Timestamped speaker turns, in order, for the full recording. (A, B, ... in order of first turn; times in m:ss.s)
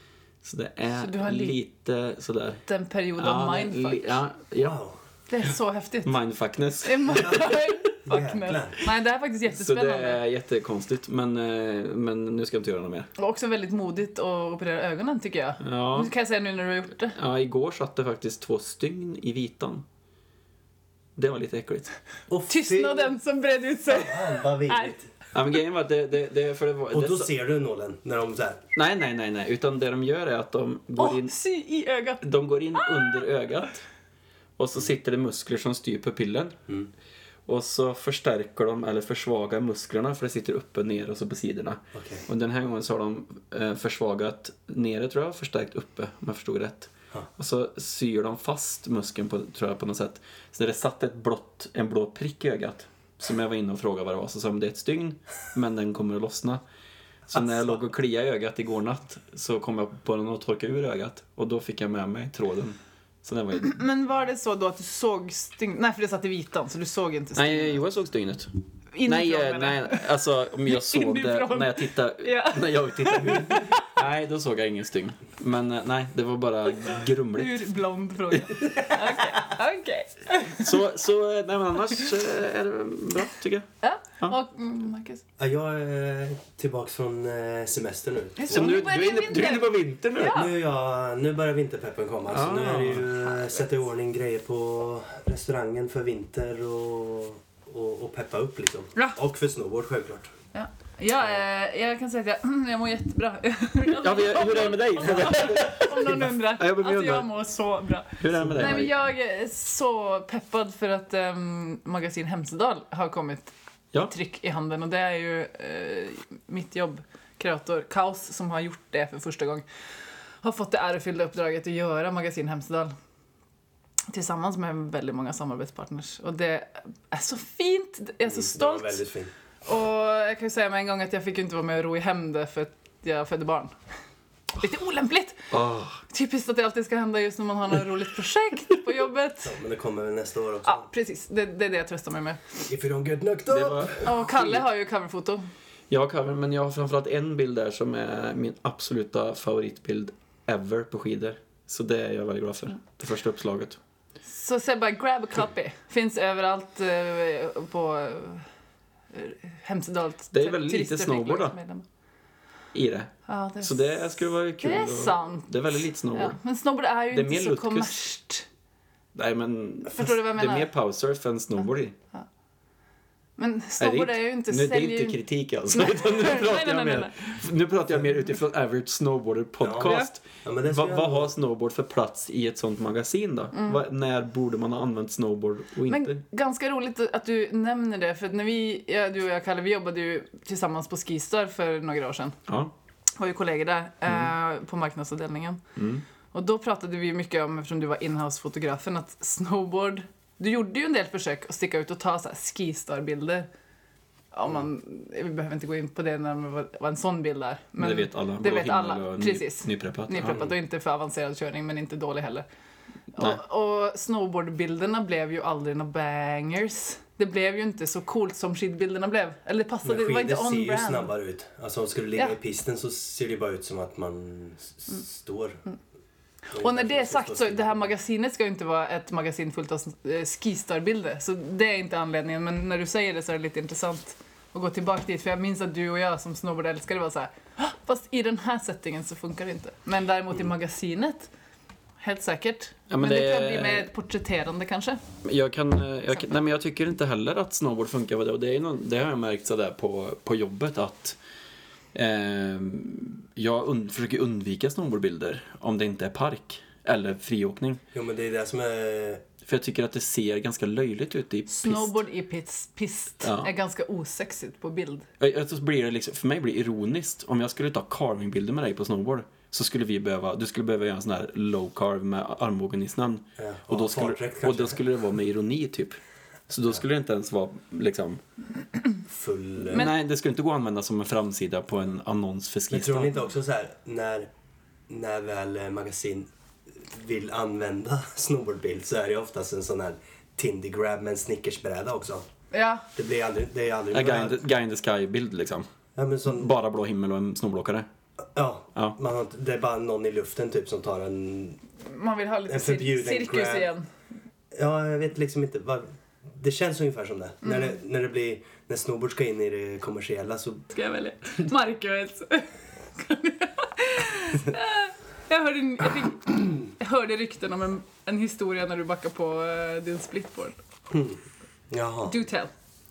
0:00.4-0:02.6 A
0:00.9-0:01.6 B
0:02.7-0:04.2 B
0:03.2-0:04.8 A
0:04.6-0:05.0 C
0:05.3-0:06.2 B
0:06.0-0:07.4 A
0:06.8-0:10.2 B
0:08.1-0:08.8 C
0:09.5-0:13.1 A
0:13.2-0:17.2 B
0:15.6-0:16.1 A
0:17.2-0:19.8 A
0:21.2-0:21.9 A
0:22.3-0:23.1 C
0:22.5-0:24.9 B
0:23.9-0:25.1 C
0:25.3-0:27.3 A
0:26.9-0:28.6 C
0:28.8-0:31.3 A
0:31.0-0:32.2 B
0:32.2-0:33.8 A
0:32.8-0:33.3 B
0:34.6-0:36.6 A
0:37.5-0:56.6 A
0:42.0-0:42.3 C
0:57.3-0:57.8 C
0:57.3-1:03.8 A
1:03.6-1:07.8 B
1:07.4-1:08.5 A
1:08.9-1:10.1 B
1:09.0-1:17.6 A
1:10.7-1:13.9 B
1:17.3-1:20.8 B
1:20.6-1:23.7 A
1:23.8-1:25.2 B
1:25.4-1:28.8 C
1:28.4-1:30.5 B
1:28.5-1:30.4 A
1:30.3-1:40.3 C
1:32.3-1:33.1 A
1:33.2-1:33.6 B
1:40.5-1:59.6 B
1:43.9-1:47.3 A
1:48.2-1:48.9 A
1:48.3-1:48.8 C
2:00.4-2:02.9 B
2:04.1-2:09.0 B
2:08.3-2:09.3 C
2:09.6-2:13.7 B
2:14.6-2:15.4 B
2:15.5-2:16.0 A
2:16.1-2:19.6 B
2:19.4-2:20.9 C
2:20.6-2:22.4 B
2:22.7-2:24.1 C
2:23.5-2:24.6 A
2:24.0-2:25.5 B
2:25.9-2:33.8 A
2:34.3-2:38.5 B
2:39.1-2:41.8 B
2:40.3-2:41.6 A
2:42.7-2:46.4 A
2:43.3-2:44.0 B
2:44.6-2:45.6 B
2:46.1-2:48.5 B
2:47.1-2:48.0 A
2:49.2-2:52.0 A
2:49.9-2:50.7 B
2:53.4-2:55.2 B
2:53.8-3:06.2 A
2:55.7-2:57.2 B
2:59.6-3:01.3 C
2:59.8-3:00.1 B
3:03.5-3:03.8 B
3:05.9-3:12.4 B
3:12.5-3:12.7 A
3:13.2-3:15.6 B
3:15.8-3:16.0 A
3:16.3-3:23.5 B
3:24.3-3:32.5 B
3:27.8-3:30.4 A
3:33.2-3:41.1 B
3:39.8-3:45.6 C
3:46.5-4:01.3 B
3:46.6-3:47.9 C
4:02.0-4:05.0 B
4:02.9-4:03.9 A
4:05.2-4:11.2 A
4:11.9-4:17.8 A
4:17.9-4:19.2 C
4:19.4-4:22.0 A
4:21.5-4:25.1 B
4:23.2-4:23.5 A
4:25.2-4:36.0 A
4:33.4-4:34.8 C
4:36.5-4:38.2 A
4:39.1-4:39.9 C
4:39.7-4:43.2 A
4:42.7-4:44.3 C
4:44.9-4:52.3 C
4:52.5-4:52.9 B
4:53.0-4:54.4 C
4:53.9-4:55.7 A
4:56.0-4:56.5 C
4:56.3-4:57.9 A
4:58.4-5:01.6 C
5:01.8-5:03.9 B
5:02.5-5:03.7 C
5:04.5-5:10.6 C
5:07.4-5:07.7 B
5:10.7-5:20.6 B
5:20.9-5:22.2 C
5:22.1-5:22.5 B